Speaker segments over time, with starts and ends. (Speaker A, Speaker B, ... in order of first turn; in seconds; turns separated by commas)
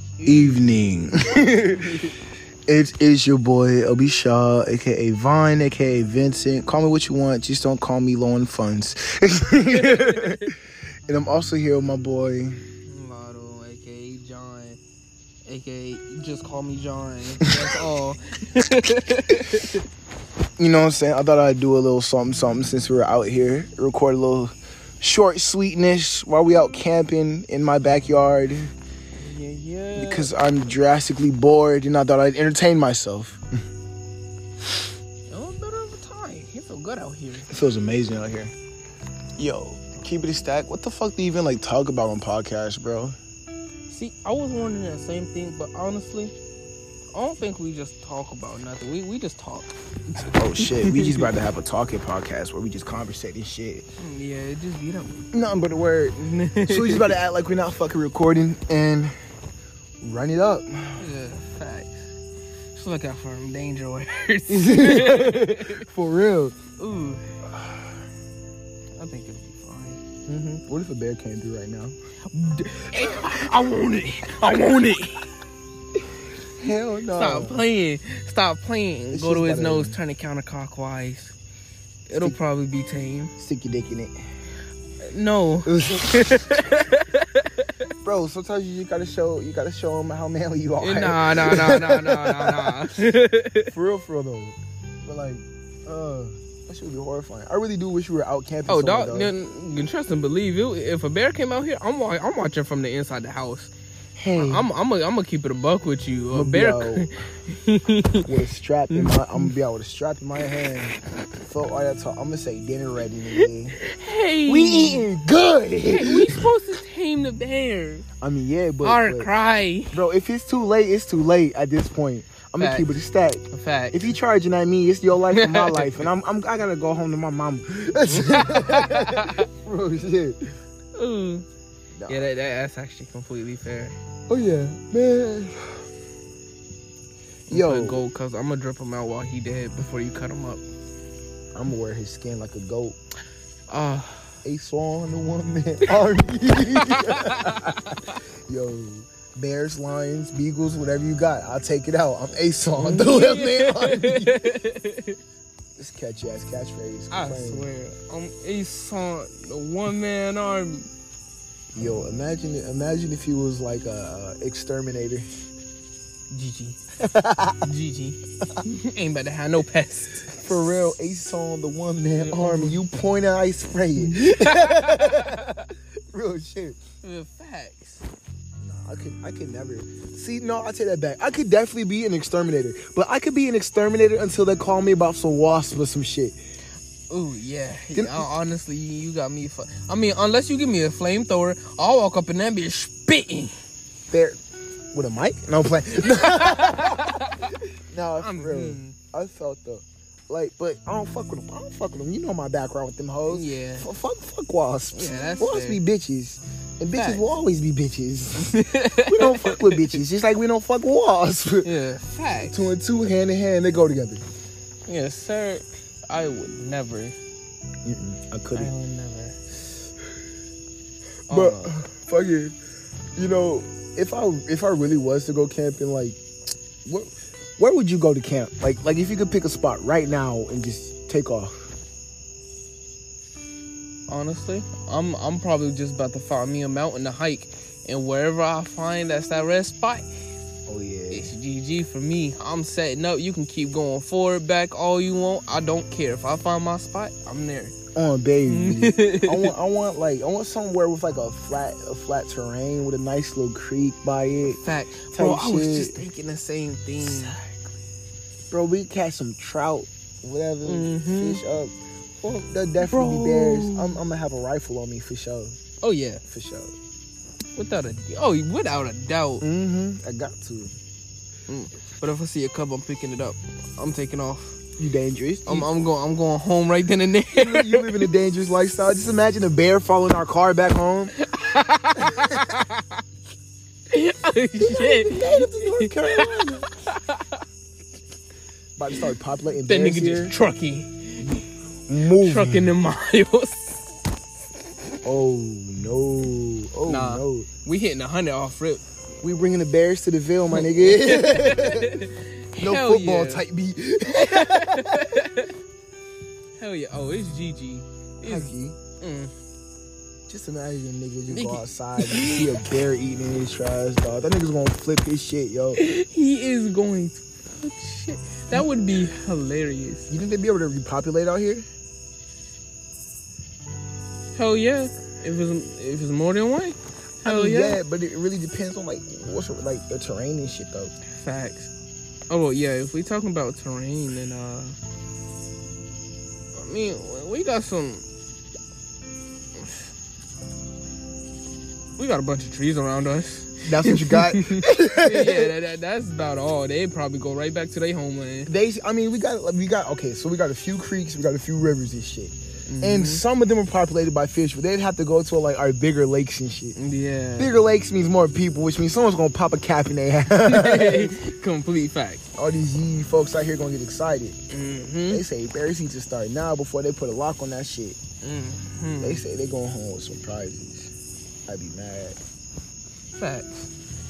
Speaker A: 0.2-0.7, Speaker B: 0.2-2.0, Speaker A: 1.7-2.1, Speaker B: 2.7-10.5, Speaker A: 9.7-10.5, Speaker B: 11.1-12.6, Speaker A: 12.9-14.8, Speaker A: 15.4-19.8, Speaker B: 20.6-28.7, Speaker A: 29.2-30.3, Speaker B: 30.0-33.4, Speaker A: 35.3-37.5, Speaker B: 37.5-38.5, Speaker B: 39.4-43.2, Speaker A: 43.9-46.3, Speaker A: 47.1-51.3, Speaker B: 50.2-53.9, Speaker A: 54.0-55.3, Speaker B: 55.3-59.1, Speaker A: 56.2-57.2, Speaker B: 60.0-61.1, Speaker A: 61.0-62.1, Speaker A: 62.7-65.8, Speaker B: 64.5-66.6, Speaker A: 66.8-67.2, Speaker A: 69.0-70.0, Speaker B: 70.3-72.0, Speaker A: 72.3-75.2, Speaker B: 76.6-77.7, Speaker A: 77.1-81.4, Speaker B: 79.1-80.0, Speaker A: 82.1-83.3, Speaker B: 83.4-84.2, Speaker A: 85.0-87.9, Speaker B: 85.7-86.6, Speaker B: 88.0-92.8, Speaker A: 90.8-93.7, Speaker B: 93.7-99.3, Speaker A: 98.7-103.7, Speaker B: 104.2-104.7, Speaker A: 104.3-108.3, Speaker B: 106.3-107.1, Speaker B: 108.2-113.8, Speaker A: 108.9-109.5, Speaker A: 113.4-115.1, Speaker B: 114.5-116.5, Speaker A: 115.9-118.1, Speaker B: 118.2-119.3, Speaker A: 118.8-120.0, Speaker B: 119.9-130.4, Speaker A: 122.6-122.9, Speaker A: 123.5-124.1, Speaker A: 125.3-126.1, Speaker A: 128.1-129.5, Speaker A: 130.9-131.5, Speaker B: 132.0-132.3, Speaker A: 132.1-133.9, Speaker B: 134.3-135.6, Speaker A: 137.5-140.6, Speaker B: 137.5-138.0, Speaker B: 141.5-143.0, Speaker A: 143.7-144.3, Speaker B: 144.4-154.6, Speaker A: 146.8-148.2, Speaker A: 152.8-155.2, Speaker B: 155.8-157.7, Speaker A: 157.1-160.9, Speaker B: 161.7-165.3, Speaker A: 166.3-166.8, Speaker B: 167.0-167.7, Speaker A: 167.6-170.9, Speaker B: 170.4-176.8, Speaker A: 172.2-172.8, Speaker A: 174.0-175.7, Speaker A: 177.0-178.1, Speaker B: 178.6-186.4, Speaker A: 187.1-193.5, Speaker B: 187.9-188.3, Speaker B: 194.1-194.4, Speaker B: 194.9-211.7, Speaker A: 196.2-197.4, Speaker A: 198.2-199.0, Speaker A: 203.3-203.9, Speaker A: 204.9-205.8, Speaker A: 206.9-207.3, Speaker A: 208.4-209.9, Speaker A: 211.6-212.6, Speaker B: 212.4-214.2, Speaker A: 214.9-217.2, Speaker B: 217.8-218.7, Speaker A: 218.6-219.5, Speaker A: 221.3-221.7, Speaker B: 221.3-222.6, Speaker B: 223.2-226.2, Speaker B: 226.8-231.7, Speaker A: 234.1-240.1, Speaker B: 240.7-241.3, Speaker A: 241.1-247.8, Speaker B: 247.9-254.6, Speaker A: 248.5-249.5, Speaker A: 254.6-257.4, Speaker B: 255.1-256.0, Speaker B: 257.0-257.5, Speaker B: 258.5-265.6, Speaker A: 260.6-261.4, Speaker A: 262.8-264.0, Speaker A: 265.8-266.2, Speaker B: 266.3-266.7, Speaker A: 267.6-269.4, Speaker B: 269.4-270.8, Speaker A: 271.5-274.6, Speaker B: 274.8-275.7, Speaker A: 275.5-278.1, Speaker B: 277.3-281.1, Speaker A: 281.2-283.0, Speaker B: 282.0-282.5, Speaker A: 283.9-287.4, Speaker B: 284.6-286.7, Speaker B: 288.8-290.4, Speaker A: 289.7-291.4, Speaker B: 291.9-292.7, Speaker A: 292.2-293.8, Speaker B: 295.0-297.5, Speaker A: 296.9-298.8, Speaker B: 299.2-305.3, Speaker A: 300.5-303.4, Speaker A: 304.1-305.5, Speaker A: 306.6-309.3, Speaker B: 308.2-308.8, Speaker B: 310.3-315.8, Speaker A: 311.3-312.6, Speaker A: 315.8-320.1, Speaker B: 320.1-321.7, Speaker A: 324.4-327.8, Speaker B: 327.2-330.9, Speaker A: 331.1-331.7, Speaker A: 332.3-334.8, Speaker A: 336.6-338.1, Speaker A: 342.0-348.5, Speaker B: 343.7-345.5, Speaker B: 348.5-356.8, Speaker A: 352.7-353.2, Speaker A: 356.8-357.5, Speaker B: 357.4-361.1, Speaker A: 360.4-362.3, Speaker B: 362.4-364.4, Speaker A: 364.5-365.2, Speaker B: 365.1-368.0, Speaker A: 368.2-369.2, Speaker B: 369.0-370.9, Speaker B: 371.5-372.2, Speaker A: 373.1-373.7